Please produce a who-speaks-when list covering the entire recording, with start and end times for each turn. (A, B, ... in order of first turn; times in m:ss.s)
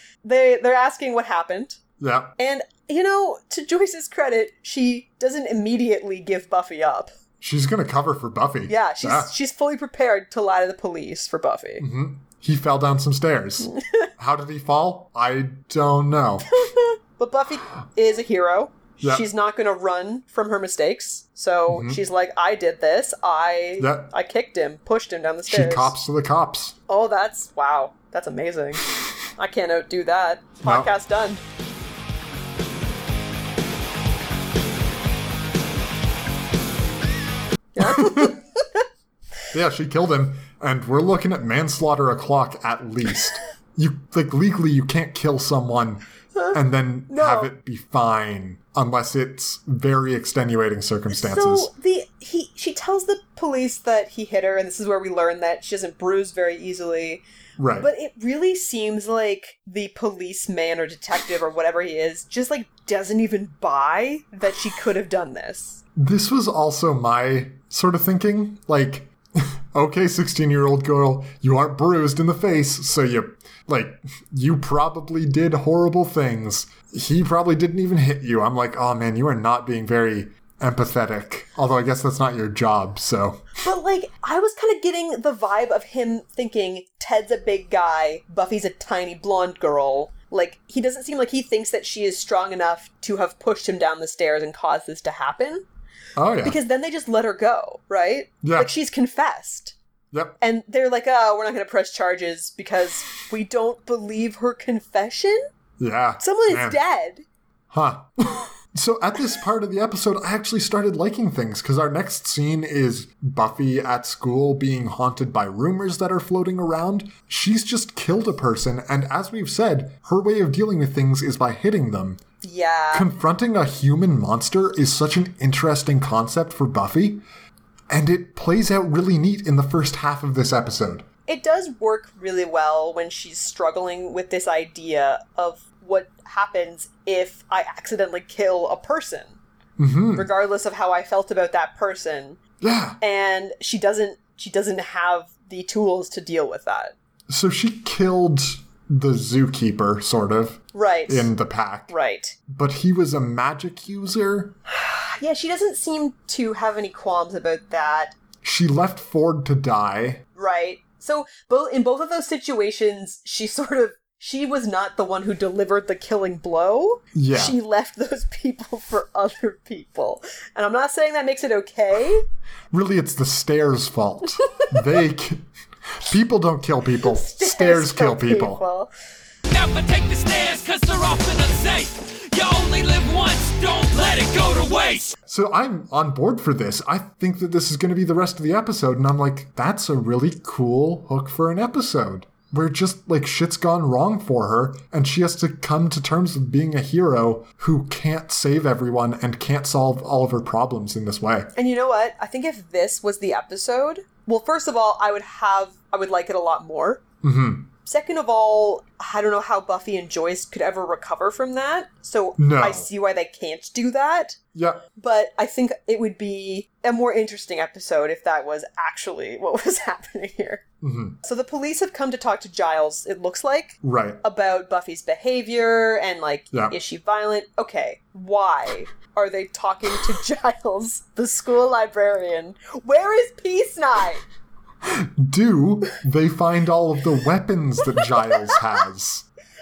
0:00.2-0:01.8 A
0:02.0-0:02.4 B
0:02.4-0:07.1 A
0:07.4-0:09.3 B
0:08.7-0:11.8 A
0:11.8-0:16.5 B
0:16.6-0:25.9 A
0:19.0-0:19.3 B
0:21.7-0:22.0 B
0:23.8-0:24.1 B
0:25.5-0:26.8 B
0:26.9-0:31.4 A
0:30.6-0:30.9 B
0:37.8-0:38.8 A
0:37.8-0:38.4 B
0:39.5-0:51.7 B
0:46.4-0:47.5 A
0:51.1-0:57.2 A
0:57.6-0:57.9 B
0:57.8-1:05.8 A
1:06.0-1:23.5 B
1:23.6-1:35.6 A
1:36.2-1:36.6 B
1:36.4-1:39.8 A
1:38.4-1:38.7 B
1:40.4-1:45.5 A
1:45.8-1:46.8 B
1:46.2-1:47.2 A
1:47.7-2:02.2 B
2:02.4-2:03.1 A
2:02.9-2:07.2 B
2:07.9-2:11.1 B
2:11.3-2:19.4 A
2:19.8-2:20.3 B
2:20.1-2:22.4 A
2:22.6-2:23.0 B
2:23.0-2:26.9 A
2:27.3-2:31.9 B
2:30.7-2:31.3 A
2:31.9-2:32.4 A
2:32.5-2:34.6 B
2:34.7-2:38.2 A
2:38.4-2:40.2 B
2:40.4-2:52.2 A
2:47.1-2:47.6 B
2:52.7-2:55.4 B
2:56.0-2:58.6 B
2:57.0-2:58.9 A
2:59.5-3:05.1 C
3:05.3-3:21.5 B
3:21.6-3:27.0 A
3:27.2-3:27.7 B
3:27.8-3:34.4 A
3:32.4-3:32.9 B
3:34.6-3:34.8 B
3:35.0-3:40.6 A
3:40.8-3:41.2 B
3:41.2-3:54.2 A
3:43.8-3:44.2 B
3:54.8-3:59.3 B